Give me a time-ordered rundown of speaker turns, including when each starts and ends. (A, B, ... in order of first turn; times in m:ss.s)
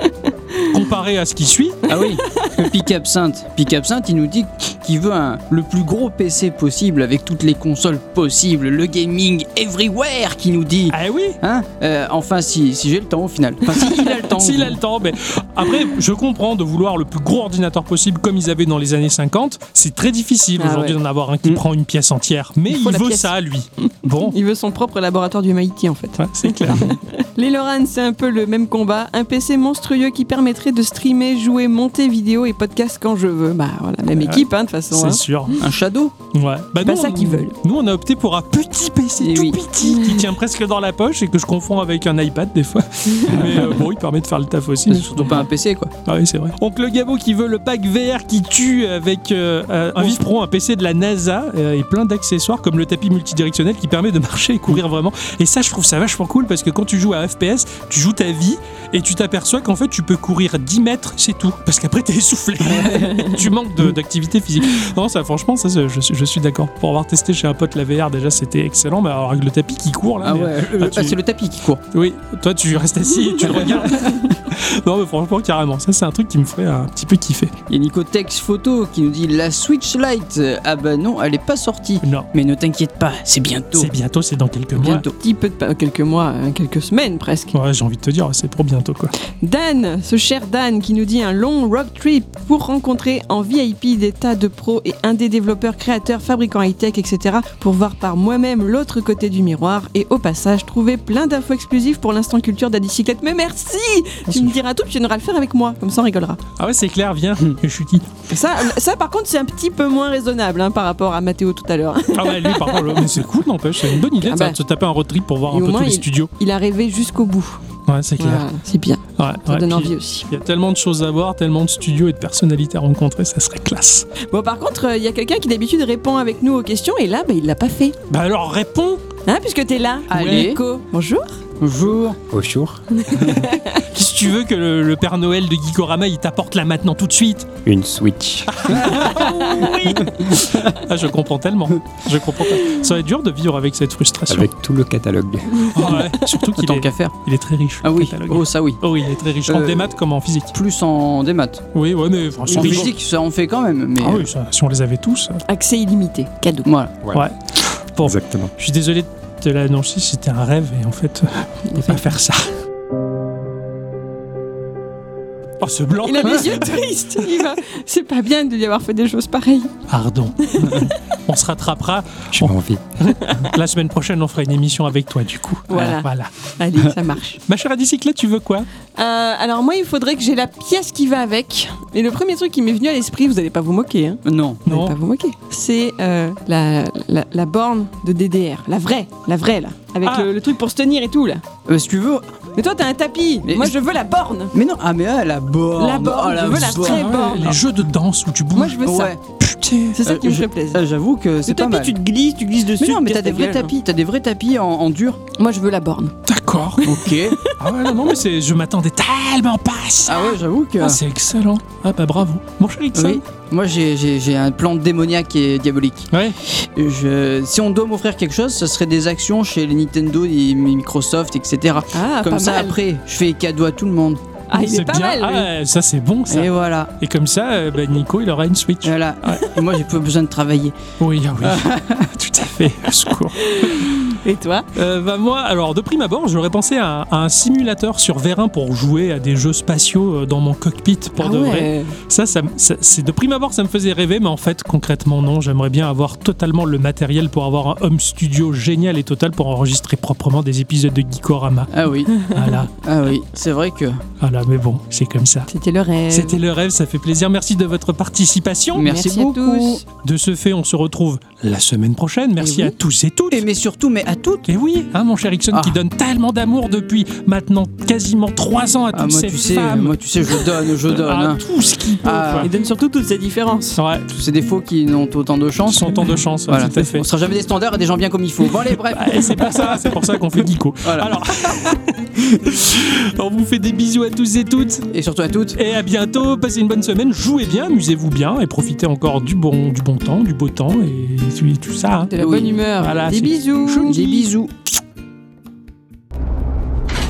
0:00.2-0:00.7 A
0:00.6-0:01.8 B
0:01.9-0:14.8 C
0:10.9-0:11.4 B
0:13.8-0:24.4 B
0:20.6-0:21.0 A
0:22.7-0:23.3 A
0:23.9-0:35.2 A
0:26.2-0:26.9 B
0:34.2-0:35.6 B
0:35.6-0:36.1 C
0:36.3-0:45.5 B
0:36.8-0:37.6 A
0:39.2-0:39.6 C
0:39.8-0:40.2 A
0:43.3-0:43.7 C
0:44.9-0:45.9 C
0:46.0-1:11.2 B
1:02.7-1:03.0 C
1:10.2-1:11.8 C
1:11.9-1:17.5 B
1:13.4-1:14.3 C
1:17.7-1:23.9 C
1:23.8-1:25.1 B
1:24.8-1:25.1 C
1:25.2-1:27.5 A
1:27.5-1:29.1 B
1:29.4-1:46.4 A
1:44.3-1:44.6 B
1:46.6-1:48.1 B
1:48.3-1:53.1 A
1:52.1-1:56.3 B
1:54.2-1:54.6 A
1:55.5-1:57.6 A
1:57.9-1:58.5 B
1:58.2-2:00.3 A
1:59.2-2:04.1 B
2:04.3-2:08.0 A
2:08.1-2:09.0 B
2:09.3-2:11.4 A
2:10.1-2:10.6 C
2:11.6-2:12.2 C
2:12.3-2:13.0 D
2:13.3-2:13.8 A
2:13.8-2:17.6 B
2:17.6-2:18.6 D
2:18.5-2:24.5 B
2:18.7-2:19.4 C
2:20.3-2:20.7 C
2:24.3-2:25.7 D
2:25.6-2:26.0 A
2:25.7-2:30.5 B
2:26.5-2:27.2 C
2:27.8-2:28.8 C
2:29.4-2:29.9 C
2:30.5-2:31.6 C
2:31.7-2:32.9 B
2:32.5-2:34.3 C
2:34.0-2:35.4 B
2:35.5-2:36.7 A
2:36.6-2:36.9 C
2:37.0-2:37.3 D
2:37.1-2:42.5 B
2:38.0-2:38.5 D
2:41.8-2:42.0 A
2:45.6-2:46.7 B
2:46.0-2:49.7 A
2:49.9-2:56.9 B
2:50.4-2:50.9 A
2:52.4-2:52.8 D
2:53.2-2:53.5 A
2:55.7-2:57.4 A
2:57.5-2:58.7 B
2:59.0-3:11.4 A
3:04.2-3:04.6 C
3:04.7-3:05.0 B
3:10.0-3:10.3 B
3:11.7-3:12.3 C
3:12.6-3:14.5 A
3:13.4-3:13.8 C
3:14.5-3:17.3 C
3:15.8-3:17.6 A
3:16.5-3:18.8 B
3:18.6-3:19.2 A
3:18.8-3:19.2 C
3:19.4-3:20.0 B
3:19.9-3:20.8 A
3:20.0-3:22.0 C
3:21.5-3:23.7 A
3:22.8-3:25.2 C
3:25.4-3:26.2 A
3:26.3-3:33.2 B
3:26.8-3:27.4 C
3:27.4-3:27.9 A
3:30.0-3:31.0 C
3:33.0-3:44.2 C
3:36.1-3:36.4 B
3:41.9-3:42.8 A
3:44.5-3:45.5 A
3:44.5-3:49.6 B
3:46.3-3:46.9 C
3:48.8-3:50.8 C
3:51.0-3:54.2 B
3:51.4-3:52.1 C
3:53.4-3:54.7 A
3:54.8-4:11.7 B
4:01.2-4:02.0 A
4:11.7-4:14.0 C
4:12.3-4:12.7 B
4:14.2-4:15.5 B
4:15.5-4:16.4 A
4:16.1-4:18.9 B
4:18.8-4:19.8 C
4:18.9-4:19.8 A
4:20.0-4:23.5 B
4:22.4-4:22.8 A
4:23.3-4:24.5 C
4:24.5-4:32.5 B
4:25.5-4:25.8 C
4:28.9-4:31.4 C
4:32.0-4:32.5 C
4:32.4-4:33.8 A
4:33.8-4:34.1 B
4:34.1-4:39.6 C
4:35.6-4:37.1 B
4:38.9-4:44.9 B
4:40.8-4:41.6 C
4:44.9-4:45.6 C
4:45.6-4:52.1 B
4:52.1-4:54.0 A
4:52.2-4:52.6 C
4:52.8-4:54.3 B
4:53.9-4:54.5 C